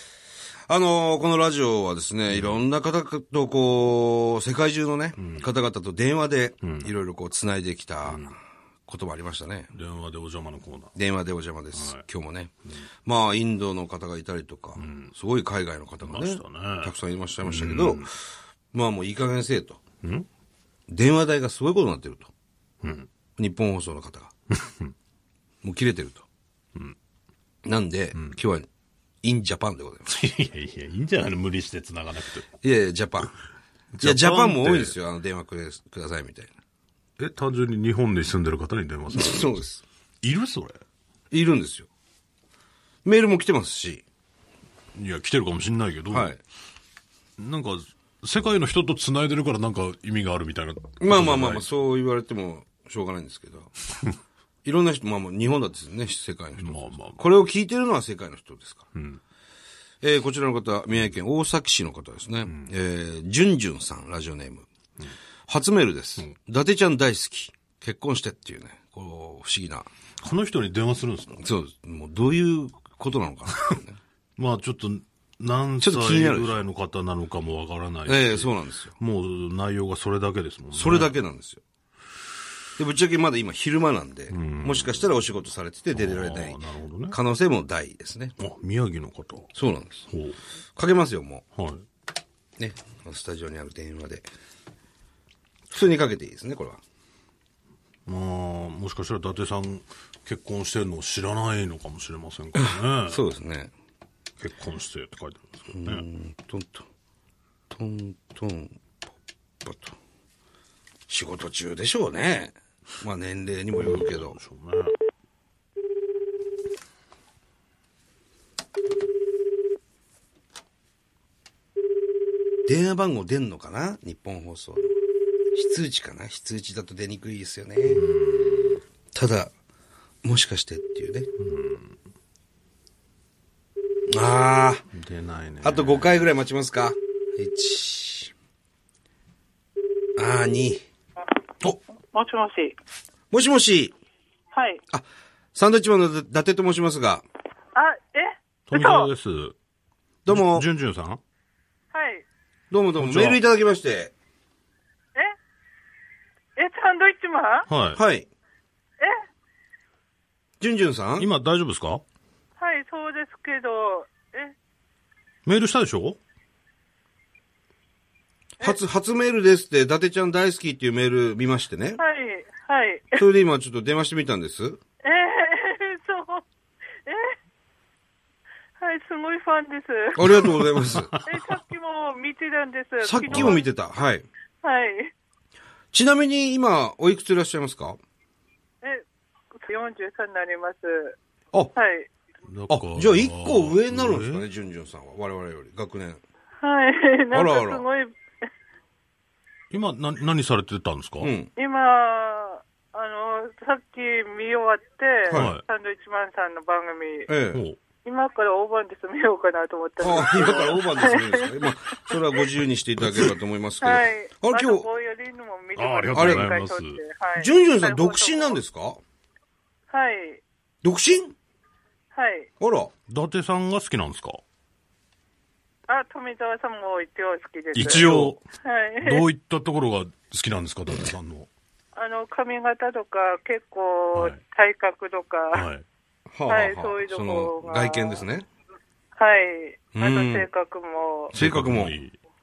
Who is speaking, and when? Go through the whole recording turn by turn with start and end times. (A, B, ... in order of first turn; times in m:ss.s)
0:00.7-0:08.4 A
0:02.3-0:02.6 B
0:05.2-0:05.5 B
0:06.6-0:06.9 B
0:08.9-0:09.7 A
0:09.7-0:11.0 B
0:11.0-0:12.5 A
0:11.7-0:12.0 B
0:13.0-0:18.1 A
0:14.8-0:15.1 B
0:16.0-0:16.9 B
0:17.4-0:18.1 B
0:18.7-0:19.8 A
0:20.9-0:22.3 A
0:22.8-0:23.1 B
0:23.4-0:24.3 A
0:24.5-0:24.9 B
0:25.6-0:26.2 A
0:27.6-0:28.7 A
0:29.2-0:30.1 A
0:30.1-0:32.5 B
0:32.6-0:33.3 A
0:33.9-0:35.0 B
0:34.0-0:36.5 A
0:37.2-0:39.5 B
0:39.1-0:39.8 A
0:40.2-0:40.8 B
0:41.3-0:41.9 A
0:43.0-0:44.0 A
0:45.0-0:46.3 B
0:46.1-0:46.4 A
0:47.4-0:51.6 B
0:51.0-0:53.7 A
0:54.6-0:58.9 A
0:56.6-0:57.2 B
0:58.9-0:59.2 B
1:00.0-1:04.7 A
1:02.4-1:02.7 B
1:05.5-1:09.9 A
1:10.2-1:11.4 B
1:11.4-1:14.0 A
1:14.4-1:21.1 B
1:15.8-1:16.6 A
1:18.1-1:19.0 A
1:20.7-1:21.6 A
1:22.8-1:26.6 A
1:24.3-1:25.2 B
1:25.9-1:27.2 B
1:27.1-1:28.4 A
1:28.4-1:29.5 B
1:29.5-1:30.1 A
1:30.1-1:30.4 B
1:30.8-1:31.4 A
1:31.6-1:31.8 B
1:32.6-1:34.3 A
1:35.7-1:36.8 A
1:38.1-1:43.2 B
1:42.6-1:43.7 A
1:44.4-1:46.0 B
1:45.7-1:46.9 A
1:47.7-1:48.8 A
1:49.6-1:50.0 A
1:51.1-1:54.4 A
1:53.8-1:54.9 B
2:02.7-2:04.9 A
2:05.5-2:08.0 A
2:07.9-2:08.8 B
2:09.1-2:09.5 A
2:10.2-2:11.3 A
2:11.4-2:12.0 B
2:14.1-2:14.8 A
2:14.9-2:16.3 B
2:15.6-2:18.3 A
2:20.2-2:20.8 A
2:22.1-2:22.8 C
2:23.3-2:24.0 A
2:24.5-2:24.8 C
2:24.9-2:27.2 A
2:27.8-2:29.1 C
2:28.7-2:29.6 B
2:30.2-2:30.7 A
2:30.3-2:31.2 B
2:31.9-2:32.2 C
2:32.7-2:34.1 A
2:33.0-2:33.4 B
2:36.6-2:37.7 C
2:37.7-2:38.0 B
2:38.0-2:38.3 A
2:40.6-2:41.3 A
2:41.2-2:42.0 B
2:42.6-2:44.5 C
2:45.5-2:46.2 B
2:48.6-2:52.0 A
2:52.0-2:53.2 C
2:53.2-2:54.8 A
2:55.0-2:56.4 C
2:57.1-2:57.4 C
2:58.8-3:00.4 C
3:00.2-3:01.1 A
3:00.2-3:01.5 B
3:01.2-3:03.7 C
3:03.0-3:04.3 A
3:03.3-3:03.6 B
3:04.6-3:05.1 C
3:05.9-3:08.0 A
3:09.6-3:11.2 C
3:11.8-3:12.1 C
3:12.5-3:14.5 B
3:12.7-3:16.2 A
3:16.6-3:18.1 C
3:17.3-3:17.8 A
3:19.7-3:21.3 B
3:21.2-3:21.5 A
3:21.6-3:27.3 C
3:25.3-3:25.6 B
3:27.3-3:27.6 A
3:27.5-3:27.8 B
3:28.0-3:32.4 C
3:30.0-3:34.8 A
3:33.0-3:33.3 B
3:33.8-3:38.6 C
3:35.8-3:37.0 B
3:36.1-3:36.5 A
3:37.4-3:39.0 A
3:39.9-3:40.4 C
3:40.8-3:41.3 A
3:42.1-3:42.5 C
3:42.6-3:42.9 A
3:43.1-3:44.4 B
3:45.9-3:48.1 C
3:47.7-3:48.4 B
3:47.9-3:48.4 A
3:48.6-3:49.3 C
3:49.0-3:51.5 B
3:52.0-3:55.6 C
3:54.1-3:54.4 B
3:55.5-3:55.9 B
3:56.3-3:58.5 A
3:56.5-3:58.2 C
3:59.2-4:01.3 C
3:59.9-4:00.5 A
4:01.3-4:02.0 A
4:01.4-4:02.2 B